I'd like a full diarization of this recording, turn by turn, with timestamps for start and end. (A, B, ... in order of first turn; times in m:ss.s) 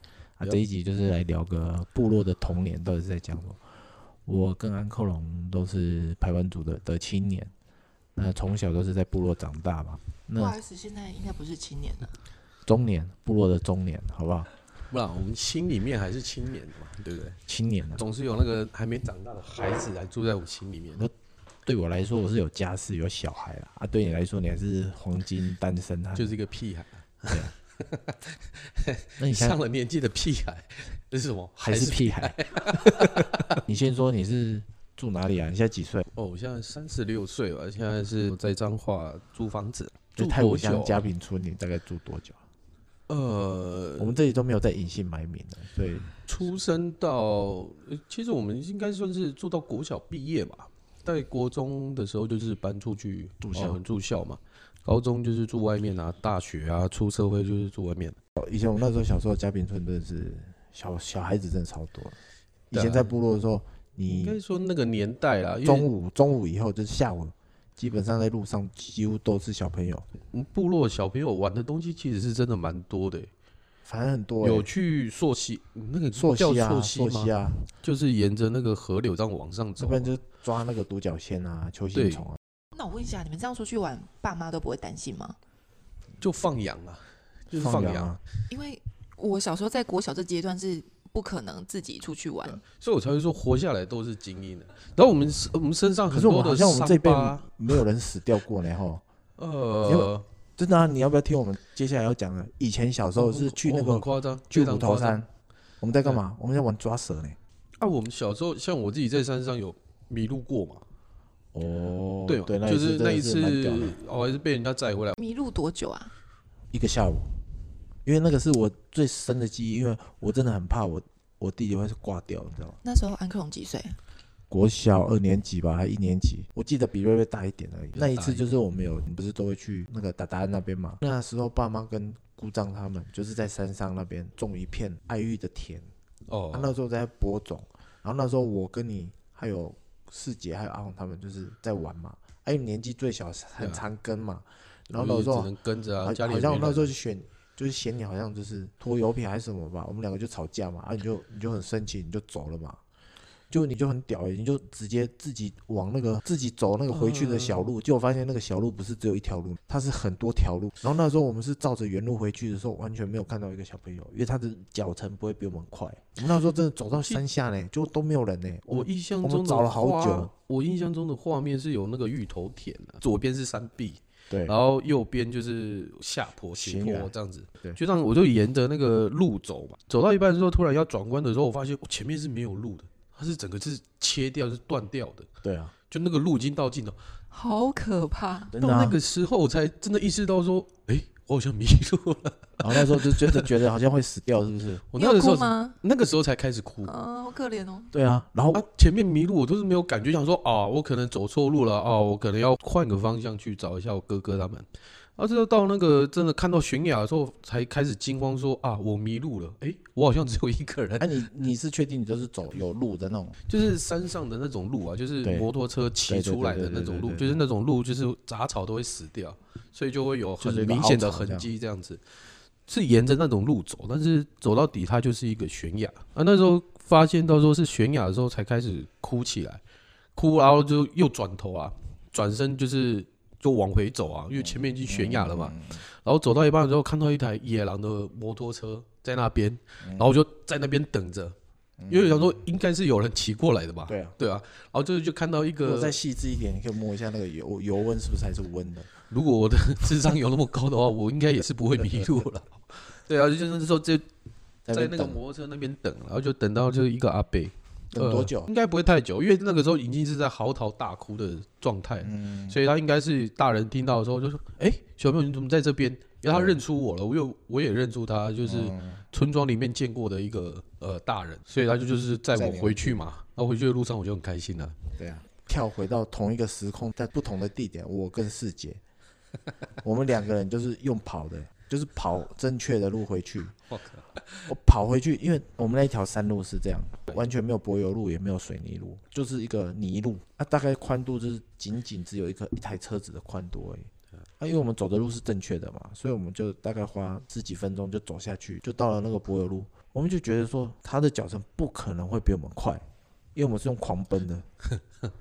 0:00.4-0:03.6 A
0:04.2-0:07.5 A
0:08.2-0:10.6 A
0:10.4-0:12.1 B
0:12.6-0:14.5 A
0:14.9-0:17.4 C
0:17.5-0:18.0 A
0:17.9-0:21.1 C
0:21.6-0:26.3 A
0:26.1-0:33.6 C
0:29.2-0:29.6 A
0:31.6-0:36.1 A
0:36.1-0:41.1 C
0:40.2-0:42.4 A
0:43.1-0:44.2 C
0:44.0-0:46.2 A
0:46.2-0:58.2 C
0:53.4-0:53.8 A
0:58.4-1:02.2 A
1:02.7-1:04.4 A
1:02.7-1:03.1 C
1:04.1-1:05.9 C
1:05.6-1:10.0 A
1:10.3-1:13.3 C
1:13.8-1:14.7 A
1:14.4-1:20.1 C
1:16.1-1:17.6 A
1:19.8-1:22.4 A
1:21.9-1:22.3 C
1:22.7-1:25.4 B
1:26.2-1:28.1 C
1:27.5-1:28.2 A
1:28.5-1:32.6 B
1:32.6-1:37.5 C
1:36.1-1:39.0 A
1:39.4-1:40.2 C
1:39.8-1:45.3 A
1:43.2-1:45.2 C
1:45.8-1:47.4 A
1:47.8-1:50.8 C
1:51.5-1:54.0 A
1:52.2-1:55.2 C
1:55.2-1:56.1 B
1:56.7-1:57.3 A
1:58.0-2:02.8 A
2:02.8-2:04.0 B
2:04.5-2:15.9 A
2:07.9-2:08.4 C
2:16.3-2:16.7 C
2:16.5-2:25.5 A
2:23.6-2:23.8 C
2:24.9-2:26.9 C
2:26.0-2:32.8 A
2:33.5-2:50.3 A
2:36.9-2:37.7 C
2:48.7-3:05.3 C
2:54.3-2:54.5 A
2:56.5-2:57.8 A
3:05.4-3:05.7 A
3:05.9-3:07.0 C
3:07.3-3:08.5 B
3:08.5-3:09.0 A
3:08.6-3:13.5 C
3:12.6-3:14.8 A
3:14.9-3:16.9 C
3:15.0-3:15.8 B
3:16.8-3:17.9 B
3:17.9-3:18.6 A
3:18.5-3:31.1 C
3:31.0-3:33.4 A
3:33.5-3:42.0 C
3:35.2-3:35.5 A
3:36.1-3:37.4 A
3:40.4-3:41.5 A
3:42.7-3:49.6 C
3:50.1-4:01.4 C
3:54.4-3:55.8 A
3:59.8-4:00.1 A
4:01.8-4:02.4 A
4:01.9-4:06.0 C
4:03.9-4:04.2 A
4:05.6-4:08.9 A
4:09.1-4:14.1 C
4:14.6-4:15.2 A
4:14.7-4:34.8 C
4:17.9-4:18.5 A
4:22.0-4:22.6 A
4:26.3-4:26.6 A
4:28.4-4:29.0 A
4:32.3-4:33.0 A
4:35.0-4:38.8 A
4:39.8-4:43.5 A
4:43.7-4:44.4 C
4:44.5-5:02.8 A
5:03.3-5:04.4 A